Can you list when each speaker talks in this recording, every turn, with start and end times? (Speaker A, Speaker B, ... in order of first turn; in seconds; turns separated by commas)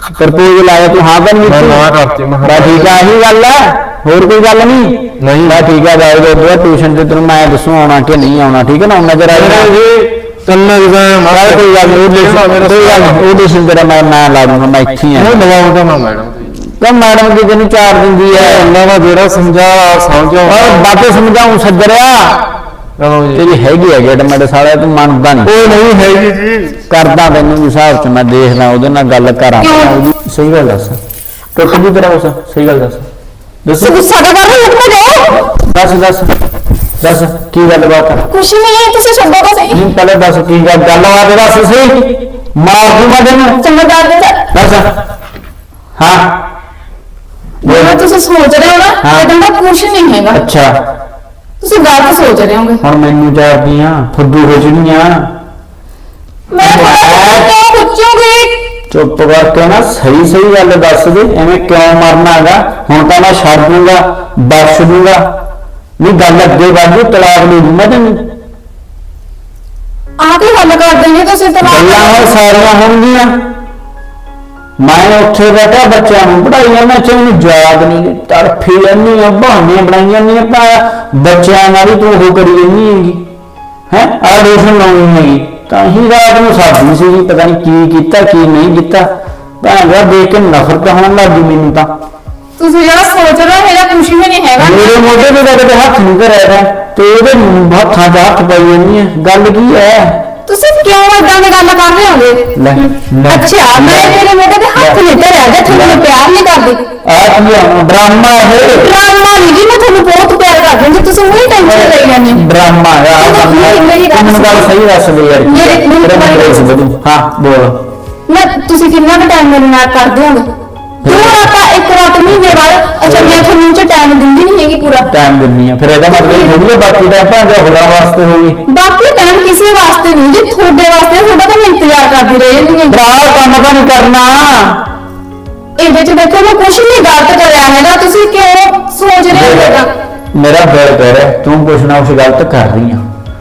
Speaker A: 0.2-1.9, Speaker B: 1.4-3.0, Speaker A: 2.4-9.7, Speaker B: 5.2-5.6, Speaker B: 9.3-13.3, Speaker A: 11.3-15.4, Speaker B: 15.2-16.5, Speaker A: 16.6-18.7, Speaker B: 18.3-20.9, Speaker A: 20.4-22.5, Speaker B: 23.0-23.4, Speaker A: 23.4-25.6, Speaker B: 25.4-26.8, Speaker A: 26.9-31.0, Speaker C: 29.6-30.0, Speaker A: 31.6-33.1, Speaker A: 33.6-33.9, Speaker C: 33.8-35.5, Speaker A: 35.6-36.3, Speaker A: 37.0-38.3, Speaker C: 38.3-39.8, Speaker A: 39.7-43.6, Speaker C: 43.5-44.5, Speaker A: 44.5-45.0, Speaker A: 46.0-46.5, Speaker A: 47.6-48.0, Speaker C: 47.6-50.4, Speaker A: 49.0-49.3, Speaker A: 50.3-50.8, Speaker C: 51.6-52.8, Speaker A: 52.8-55.4, Speaker C: 56.5-58.6, Speaker A: 56.6-57.5, Speaker A: 58.9-65.4, Speaker A: 66.0-68.3, Speaker C: 70.2-72.2, Speaker A: 71.6-73.5, Speaker A: 74.8-83.3, Speaker A: 83.9-89.1, Speaker A: 89.6-92.0, Speaker C: 92.6-95.0, Speaker A: 94.6-100.3, Speaker C: 100.5-106.8, Speaker A: 102.5-104.2, Speaker A: 104.8-105.0, Speaker A: 105.6-106.0, Speaker A: 107.0-108.9, Speaker C: 108.7-112.4, Speaker A: 111.6-117.8, Speaker C: 113.2-114.7, Speaker C: 115.5-116.7, Speaker C: 118.3-120.5, Speaker C: 121.0-125.1, Speaker A: 121.0-121.5, Speaker A: 123.1-123.4, Speaker A: 125.0-128.6, Speaker C: 126.1-126.5, Speaker C: 128.7-132.9, Speaker A: 132.9-134.8, Speaker C: 135.8-139.9, Speaker A: 139.3-139.8, Speaker A: 140.3-143.1